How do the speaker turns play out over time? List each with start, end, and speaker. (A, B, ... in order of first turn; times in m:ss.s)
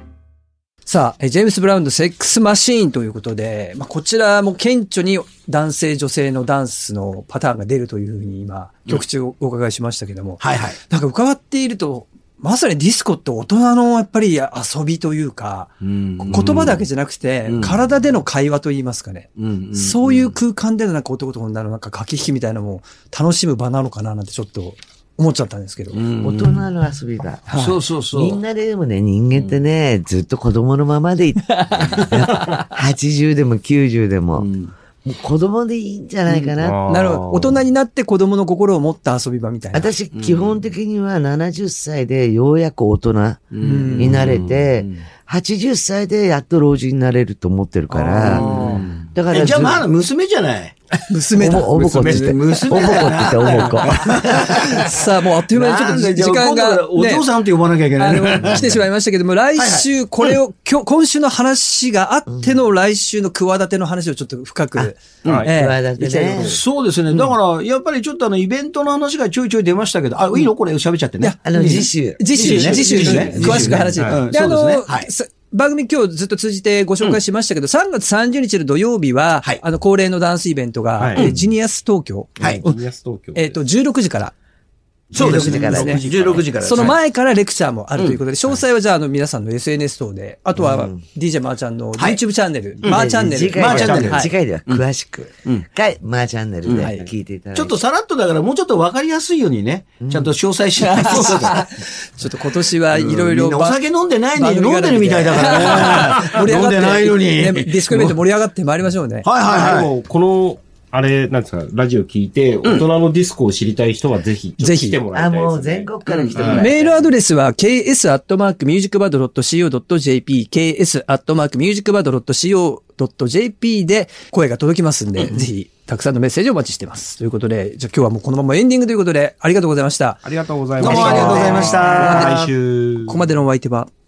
0:00.9-0:26.0 A
0:10.4-0:10.8 B
0:15.8-0:16.9 B
0:17.5-0:17.8 B
0:19.4-0:20.4 B
0:25.9-0:26.7 B
0:26.2-0:27.6 C
0:27.5-0:27.8 A
0:27.6-0:28.4 B
0:28.1-0:34.5 C
0:29.3-0:29.6 B
0:31.5-0:32.7 A
0:34.4-0:34.7 B
0:35.0-0:36.8 C
0:36.5-0:37.6 D
0:36.9-0:39.9 A
0:39.7-0:49.8 C
0:40.1-0:40.7 B
0:43.5-0:45.0 B
0:43.6-0:44.3 A
0:48.0-0:48.8 A
0:48.0-0:50.8 B
0:51.1-0:57.2 A
0:51.4-0:54.7 C
0:51.6-0:58.8 B
0:58.0-1:05.8 A
0:59.6-1:00.4 B
1:02.3-1:02.5 C
1:05.2-1:05.5 D
1:05.4-1:06.6 C
1:06.0-1:15.1 B
1:11.2-1:22.8 A
1:11.4-1:13.9 C
1:12.4-1:14.3 D
1:21.0-1:21.3 D
1:22.4-1:23.6 D
1:23.3-1:24.3 A
1:25.1-1:27.0 B
1:25.1-1:26.4 C
1:25.2-1:26.0 A
1:26.1-1:26.4 D
1:26.6-1:34.3 A
1:30.6-1:31.0 C
1:32.8-1:34.8 B
1:32.8-1:37.8 C
1:33.6-1:34.2 D
1:36.6-1:36.9 B
1:36.8-1:37.1 A
1:37.5-1:41.6 B
1:40.0-1:40.3 C
1:41.0-1:43.8 A
1:42.8-1:48.1 B
1:44.3-1:49.2 A
1:49.2-1:49.9 B
1:49.4-1:56.7 D
1:54.6-1:55.0 A
1:55.1-1:57.1 C
1:56.1-1:56.6 B
1:56.4-2:10.2 A
2:10.2-2:13.3 D
2:10.8-2:12.5 B
2:10.8-2:12.2 C
2:10.8-2:12.4 A
2:13.0-2:13.9 A